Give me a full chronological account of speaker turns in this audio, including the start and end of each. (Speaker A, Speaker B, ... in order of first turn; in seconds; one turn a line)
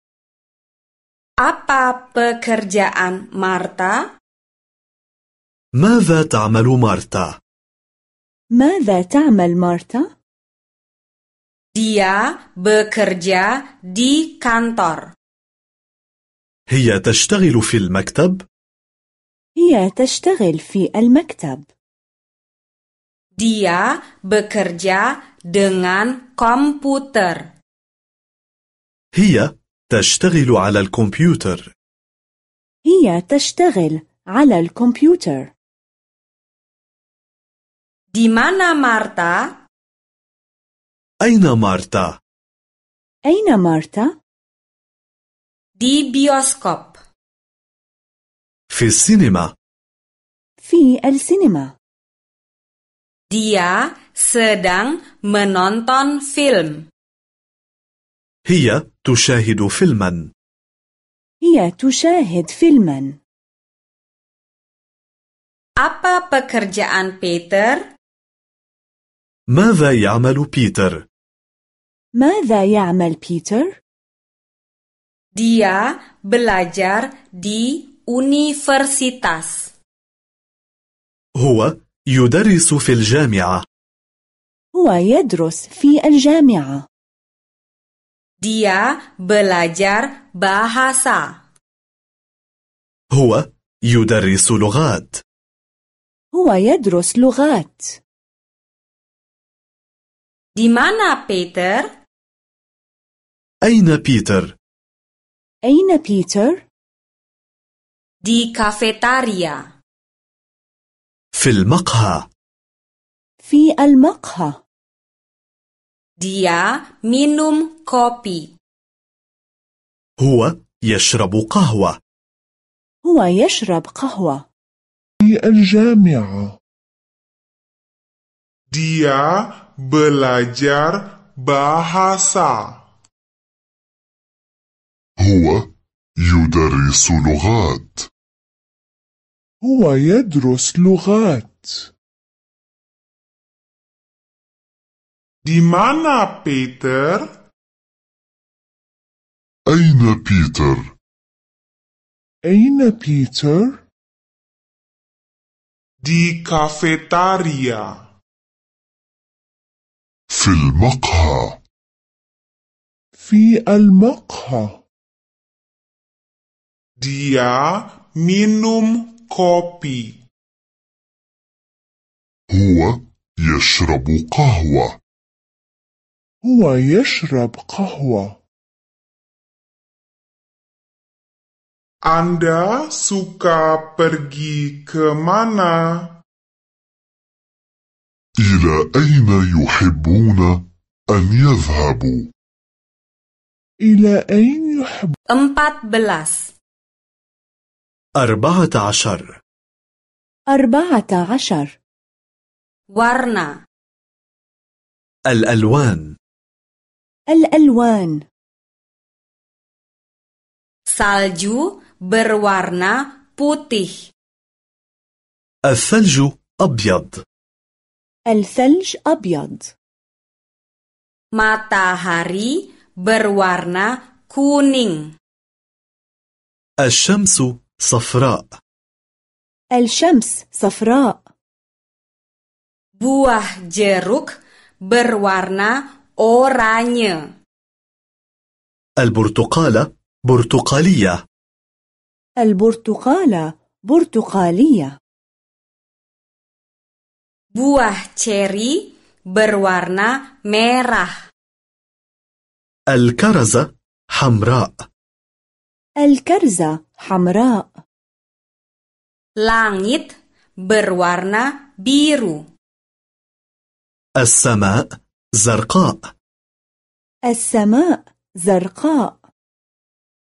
Speaker A: 1.4-4.0
Speaker B: 5.7-7.4
Speaker C: 8.5-10.1
Speaker A: 11.7-15.1
Speaker B: 16.7-18.4
Speaker C: 19.6-21.7
Speaker A: 23.4-27.5
Speaker B: 29.1-31.7
Speaker C: 32.8-35.5
Speaker A: 38.1-39.5
Speaker B: 41.2-42.2
Speaker C: 43.2-44.1
Speaker A: 45.8-47.0
Speaker B: 48.7-49.5
Speaker C: 50.6-51.7
Speaker A: 53.3-56.9
Speaker B: 58.4-60.3
Speaker C: 61.4-63.2
Speaker A: 65.8-67.8
Speaker B: 69.5-71.0
Speaker C: 72.2-73.8
Speaker A: 75.3-79.7
Speaker B: 81.3-83.6
Speaker C: 84.7-86.9
Speaker A: 88.4-91.4
Speaker B: 93.1-95.2
Speaker C: 96.3-98.0
Speaker A: 100.5-101.9
Speaker B: 103.6-104.5
Speaker C: 105.6-106.6
Speaker A: 108.2-109.6
Speaker B: 111.3-112.3
Speaker C: 113.4-114.6
Speaker A: 116.2-118.5
Speaker B: 120.2-122.0
Speaker C: 123.0-124.5
Speaker D: 125.2-126.6
Speaker E: 128.7-132.8
Speaker F: 135.2-138.1
Speaker D: 139.6-141.9
Speaker E: 145.4-147.3
Speaker F: 149.7-150.9
Speaker D: 152.4-153.8
Speaker E: 156.0-157.9
Speaker F: 160.3-161.6
Speaker D: 163.2-164.8
Speaker E: 167.0-170.2
Speaker F: 172.5-175.0
Speaker D: 176.4-178.4
Speaker E: 182.0-186.2
Speaker F: 188.4-192.3
Speaker D: 193.8-195.1
Speaker A: 195.3-196.5
Speaker B: 198.1-199.4
Speaker C: 200.5-201.8
Speaker A: 202.9-203.6
Speaker B: 205.2-206.1
Speaker C: 207.3-208.2
Speaker A: 210.9-214.1
Speaker B: 215.6-217.2
Speaker C: 218.2-219.7
Speaker A: 221.3-225.1
Speaker B: 226.8-228.6
Speaker C: 229.7-231.2
Speaker A: 233.0-237.3
Speaker B: 239.0-241.2
Speaker C: 242.4-244.9
Speaker A: 247.5-251.2
Speaker B: 252.9-254.8
Speaker C: 256.0-257.8
Speaker A: 259.4-262.4
Speaker B: 264.2-266.1
Speaker C: 267.3-269.2